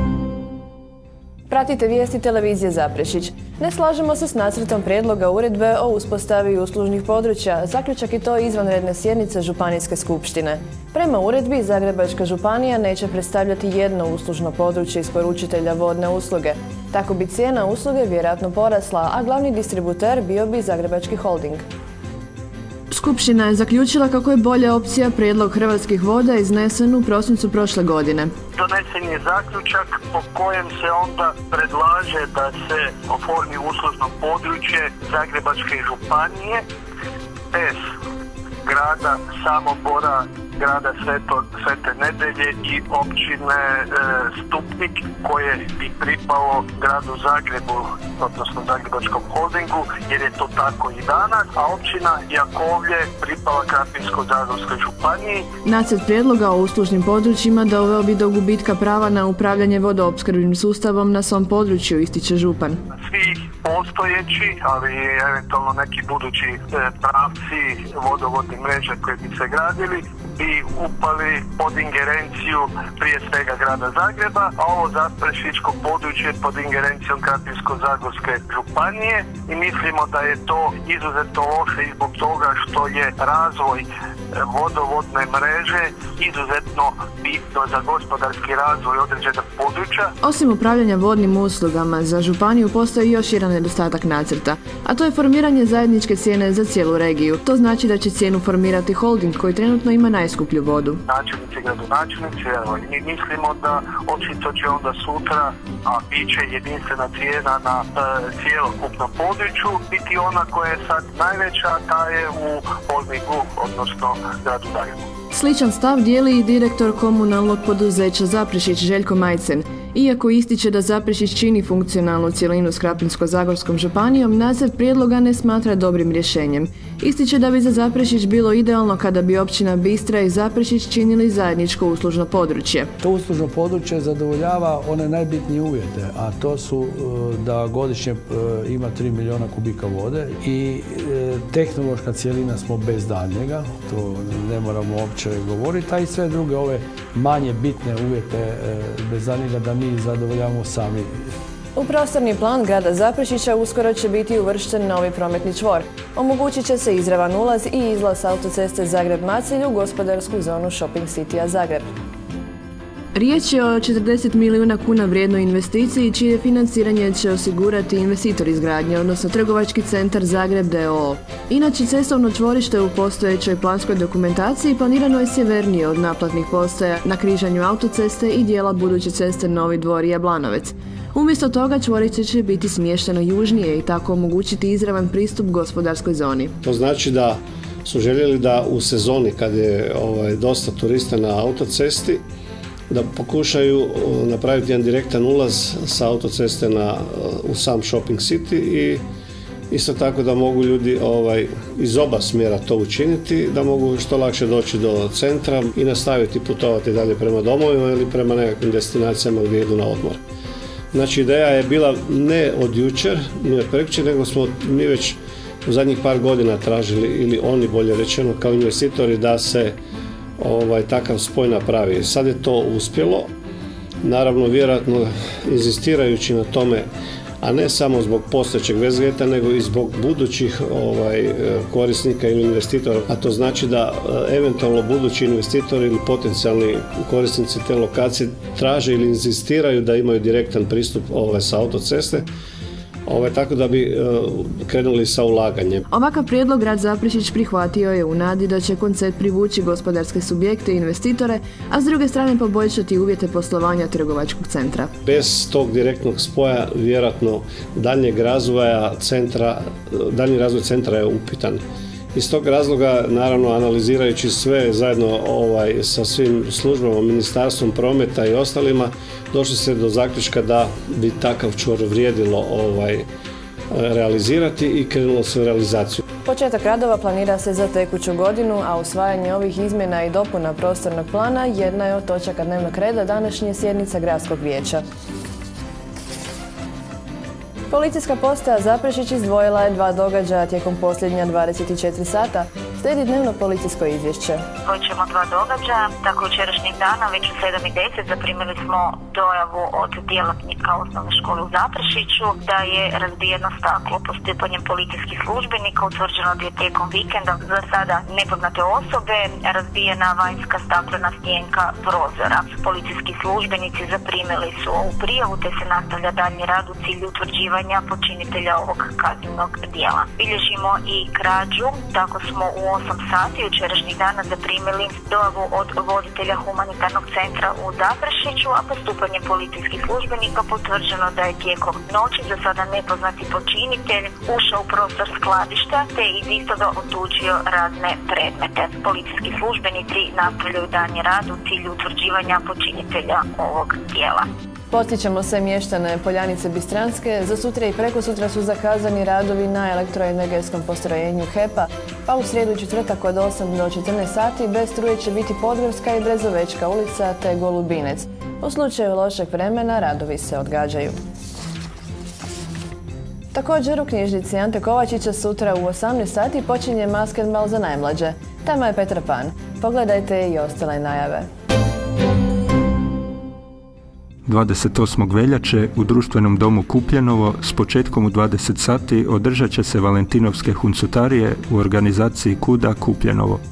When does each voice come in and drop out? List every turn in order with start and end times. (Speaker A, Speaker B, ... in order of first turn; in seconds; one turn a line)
Speaker A: 1.5-21.6
Speaker A: 22.9-28.3
Speaker B: 28.6-36.6
Speaker B: 37.5-37.8
Speaker B: 38.6-55.5
Speaker A: 55.6-62.8
Speaker B: 63.0-90.1
Speaker A: 90.2-101.0
Speaker B: 101.1-115.1
Speaker A: 115.3-132.9
Speaker C: 133.0-151.3
Speaker A: 151.8-161.9
Speaker A: 163.2-186.5
Speaker D: 186.6-192.3
Speaker D: 192.9-199.1
Speaker D: 199.7-210.2
Speaker D: 210.9-219.8
Speaker D: 220.4-223.3
Speaker D: 224.0-226.9
Speaker D: 227.4-242.3
Speaker D: 243.1-245.9
Speaker A: 245.9-254.9
Speaker D: 255.0-261.6
Speaker D: 262.1-273.1
Speaker D: 273.7-276.0
Speaker A: 276.2-284.8
Speaker A: 287.7-294.4
Speaker E: 294.7-344.3
Speaker A: 344.7-361.0
Speaker A: 363.3-371.3
Speaker F: 374.3-383.4